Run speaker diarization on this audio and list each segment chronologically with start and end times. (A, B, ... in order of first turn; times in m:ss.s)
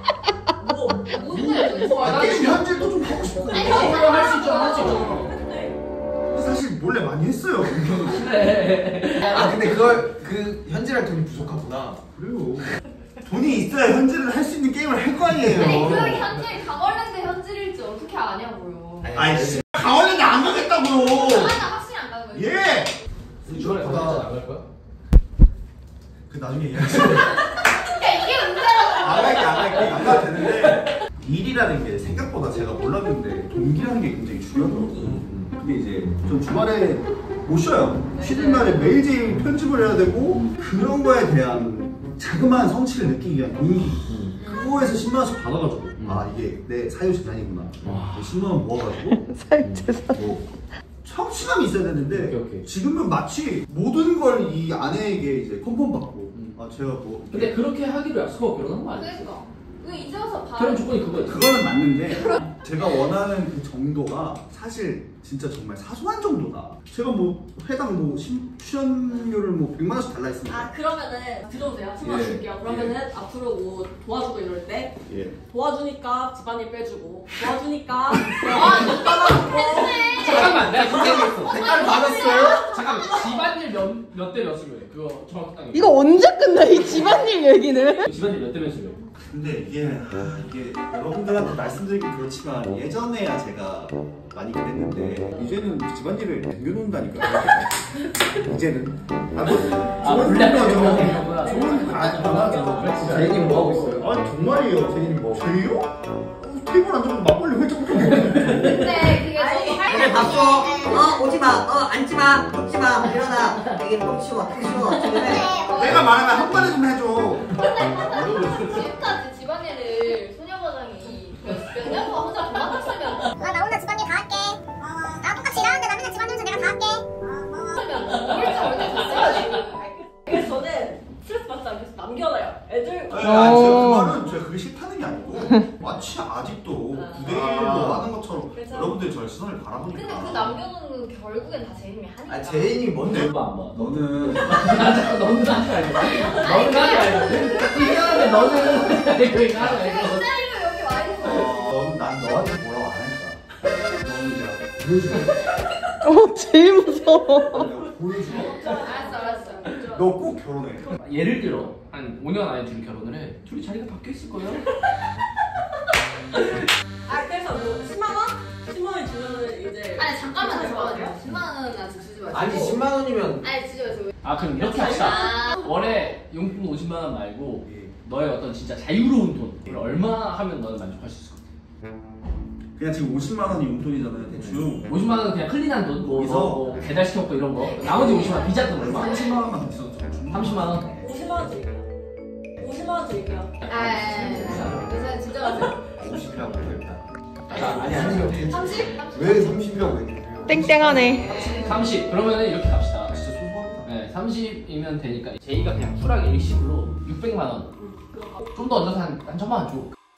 0:00.6-0:01.9 A
0:01.1-0:02.3 B
0:01.3-0:02.8 C
0:02.0-0:04.0 D
0:03.5-0:04.9 B
0:03.5-0:05.8 A
0:03.6-0:05.3 C
0:06.3-0:08.2 D
0:07.7-0:09.8 C
0:09.2-0:12.0 E
0:12.1-0:12.7 D
0:13.2-0:16.3 D
0:15.5-0:19.1 B
0:19.0-0:19.7 E
0:19.1-0:21.7 D
0:21.0-0:22.8 B
0:22.3-0:22.9 D
0:23.4-0:24.6 C
0:23.4-0:24.3 D
0:26.3-0:27.6 D
0:27.4-0:29.9 B
0:28.9-0:49.3 D
0:34.9-0:35.5 C
0:38.2-0:38.7 B
0:44.1-0:44.4 C
0:44.4-0:44.8 B
0:46.0-0:46.2 C
0:47.8-0:48.4 C
0:49.4-0:50.0 F
0:49.6-0:49.9 C
0:50.0-0:50.5 D
0:51.0-0:57.6 D
0:52.1-0:52.6 C
0:57.3-0:59.3 C
0:58.9-1:01.0 B
1:00.6-1:01.4 C
1:01.2-1:10.7 D
1:10.4-1:15.0 A
1:12.0-1:12.9 D
1:15.1-1:15.3 D
1:15.5-1:23.5 A
1:18.5-1:19.0 C
1:18.5-1:20.4 B
1:18.7-1:19.1 E
1:20.0-1:21.7 C
1:20.4-1:22.8 E
1:21.5-1:21.8 B
1:22.7-1:26.0 C
1:25.8-1:28.0 F
1:26.7-1:27.3 C
1:28.0-1:29.0 C
1:29.3-1:49.0 D
1:39.4-1:44.1 C
1:41.4-1:43.0 A
1:48.1-1:48.8 C
1:48.6-1:51.2 B
1:49.3-1:50.9 A
1:49.9-1:55.5 G
1:55.5-1:56.8 B
1:55.7-1:57.4 D
1:57.5-2:03.3 B
1:57.9-1:58.9 C
2:03.4-2:07.0 H
2:07.2-2:13.5 A
2:07.8-2:09.8 B
2:08.4-2:08.7 C
2:13.1-2:20.6 D
2:13.4-2:14.0 F
2:17.2-2:18.1 E
2:18.5-2:19.0 A
2:19.9-2:22.8 B
2:22.3-2:23.3 E
2:23.1-2:24.8 D
2:23.1-2:30.2 C
2:26.0-2:29.0 B
2:29.7-2:31.7 B
2:31.2-2:35.4 D
2:36.1-2:37.6 F
2:36.6-2:40.1 A
2:37.4-2:38.9 D
2:38.7-2:39.7 B
2:39.9-2:41.0 D
2:40.9-2:44.6 C
2:47.1-2:51.2 A
2:50.0-2:54.1 B
2:52.3-2:53.5 E
2:54.2-3:01.4 C
2:54.7-2:55.4 A
2:54.8-2:55.7 B
2:57.6-2:57.9 D
3:02.8-3:04.9 D
3:04.8-3:09.3 C
3:06.1-3:06.8 D
3:07.9-3:09.4 B
3:08.8-3:11.1 D
3:10.3-3:10.9 C
3:11.0-3:11.8 A
3:12.6-3:13.5 A
3:13.6-3:14.8 C
3:13.7-3:15.8 B
3:14.1-3:22.0 E
3:17.5-3:18.6 C
3:18.3-3:19.6 B
3:20.5-3:21.3 F
3:21.0-3:21.7 B
3:21.5-3:23.2 C
3:23.1-3:23.9 E
3:23.8-3:27.7 C
3:27.8-3:28.4 A
3:28.5-3:29.9 C